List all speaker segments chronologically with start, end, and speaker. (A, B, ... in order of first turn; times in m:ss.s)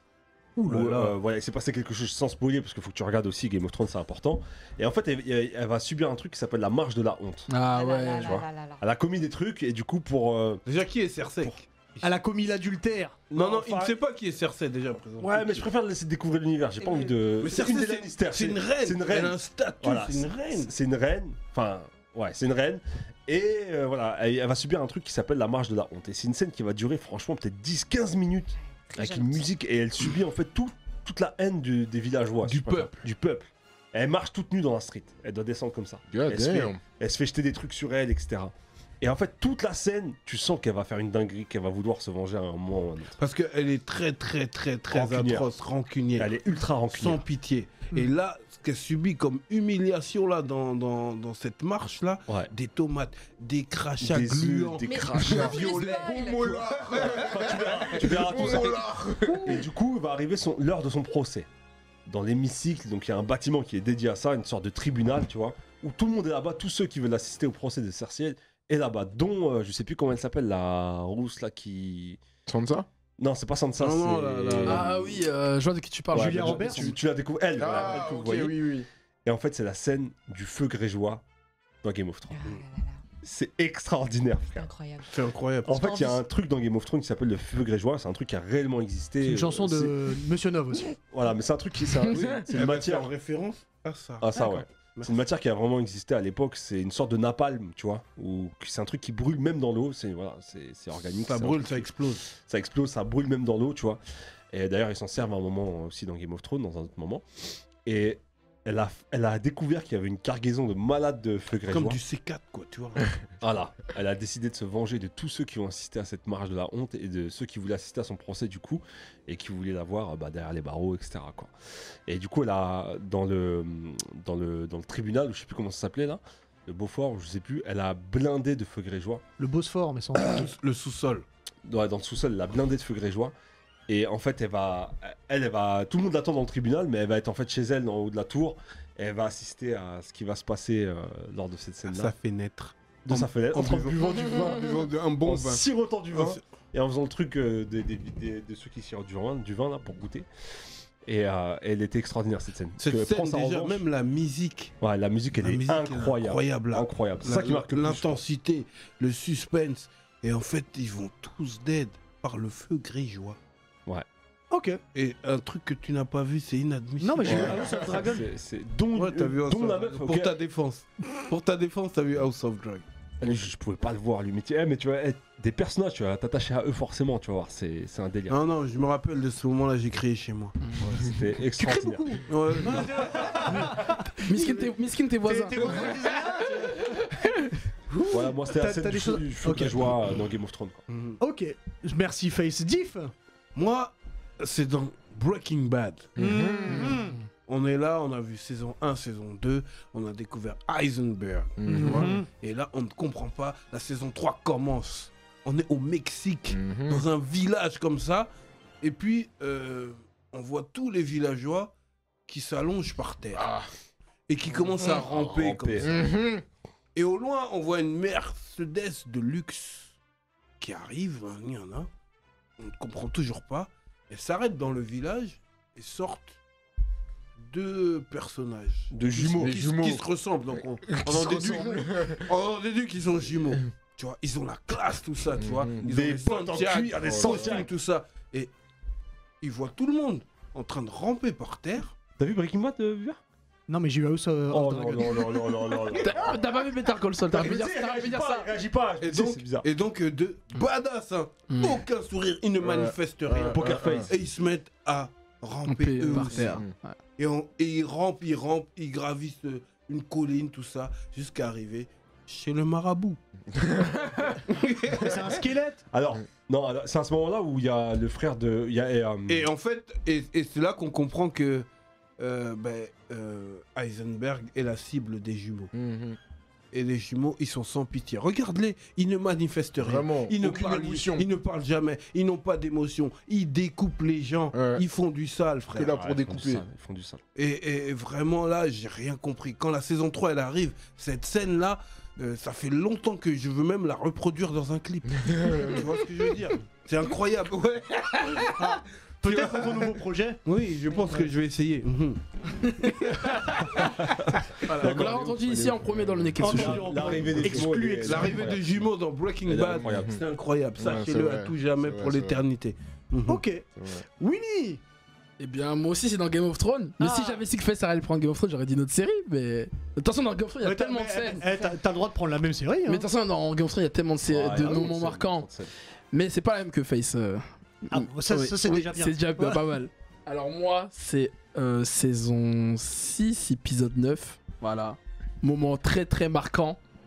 0:00.6-0:01.2 A
0:00.6-0:07.5 B
0:07.5-0:08.4 C
0:07.7-0:08.8 D
0:08.1-0:10.6 B
0:10.7-0:12.1 A
0:12.0-0:13.9 E
0:13.3-0:15.7 A
0:15.2-0:43.2 B
0:16.8-0:17.2 D
0:17.4-0:20.7 A
0:28.9-0:29.4 D
0:32.4-0:33.0 A
0:36.1-0:36.8 F
0:43.2-0:46.3 A
0:44.9-0:45.5 B
0:46.2-0:47.2 B
0:46.9-0:56.3 A
0:54.0-0:55.7 B
0:54.8-0:56.7 D
0:55.2-0:59.6 F
0:56.9-1:01.5 B
0:57.0-0:57.3 A
1:02.1-1:12.2 B
1:12.5-1:12.9 F
1:13.2-1:15.0 B
1:13.8-1:15.1 A
1:14.7-1:16.8 C
1:16.1-1:21.2 B
1:16.1-1:16.9 E
1:17.6-1:18.9 F
1:21.8-1:22.5 B
1:22.3-1:23.0 D
1:23.2-1:24.7 B
1:24.6-1:25.1 D
1:25.1-1:26.1 A
1:25.7-1:30.0 B
1:29.2-1:30.9 E
1:31.1-1:33.1 B
1:32.3-1:35.1 A
1:34.2-1:44.0 B
1:41.3-1:42.3 A
1:44.5-1:47.2 B
1:47.8-1:52.0 B
1:51.7-1:53.2 A
1:53.4-2:01.5 B
2:02.1-2:09.2 B
2:09.4-2:10.5 E
2:10.2-2:11.2 A
2:11.6-2:13.3 B
2:13.9-2:22.1 B
2:21.9-2:26.4 A
2:23.1-2:30.3 B
2:31.0-2:33.8 B
2:32.8-2:34.7 A
2:34.8-2:38.2 B
2:35.4-2:43.4 A
2:44.5-2:44.8 E
2:44.9-2:47.6 A
2:47.0-2:48.3 E
2:47.2-2:50.4 B
2:48.9-2:52.8 A
2:53.2-2:58.4 B
2:58.3-3:01.2 A
3:01.0-3:02.3 B
3:01.6-3:04.7 E
3:02.3-3:03.8 A
3:04.3-3:06.3 C
3:05.2-3:07.0 E
3:06.8-3:07.5 C
3:07.9-3:09.9 E
3:08.1-3:10.8 B
3:10.9-3:11.2 A
3:11.2-3:13.1 E
3:13.6-3:16.2 A
3:16.2-3:17.0 F
3:16.2-3:17.2 E
3:17.5-3:28.3 A
3:21.6-3:22.2 F
3:21.7-3:22.3 E
3:26.5-3:27.1 F
3:28.8-3:31.7 A
3:32.3-3:33.5 A
3:33.3-3:33.7 F
3:34.3-3:36.0 A
3:34.8-3:35.9 B
3:35.8-3:36.4 F
3:37.0-3:40.0 A
3:40.6-3:41.9 A
3:42.6-3:46.4 A
3:47.4-3:58.5 A
3:48.9-3:50.0 B
3:49.4-3:50.0 F
3:50.9-3:52.2 F
3:55.4-3:55.8 F
3:55.8-3:57.7 B
3:57.0-3:57.7 F
3:59.4-4:02.0 A
4:02.2-4:03.2 B
4:03.7-4:05.8 E
4:04.5-4:06.5 B
4:06.0-4:08.5 C
4:07.3-4:09.7 B
4:09.0-4:16.6 A
4:11.5-4:11.8 C
4:12.6-4:14.1 F
4:13.5-4:14.1 B
4:15.7-4:17.0 C
4:16.3-4:16.7 F
4:17.2-4:23.2 A
4:23.6-4:23.9 F
4:24.4-4:25.4 A
4:25.0-4:25.8 E
4:25.9-4:29.5 B
4:29.3-4:31.7 A
4:32.2-4:35.7 A
4:35.7-4:36.2 F
4:36.7-4:46.0 A
4:39.8-4:41.3 F
4:44.5-4:44.8 F
4:45.7-4:46.6 F
4:46.0-4:47.2 B
4:47.4-4:58.5 A
4:55.3-4:55.8 F
4:58.6-5:00.4 E
4:59.2-5:03.9 A
5:03.4-5:03.7 C
5:03.8-5:08.9 B
5:04.6-5:05.3 A
5:04.7-5:07.3 C
5:06.4-5:08.4 E
5:07.3-5:13.4 A
5:09.4-5:10.2 B
5:09.8-5:10.2 F
5:10.8-5:12.4 F
5:13.3-5:13.7 E
5:13.8-5:14.0 F
5:14.2-5:14.8 E
5:15.4-5:21.4 C
5:17.0-5:17.4 E
5:20.6-5:23.0 E
5:22.9-5:25.5 C
5:24.2-5:25.7 B
5:26.1-5:36.8 C
5:27.9-5:29.6 E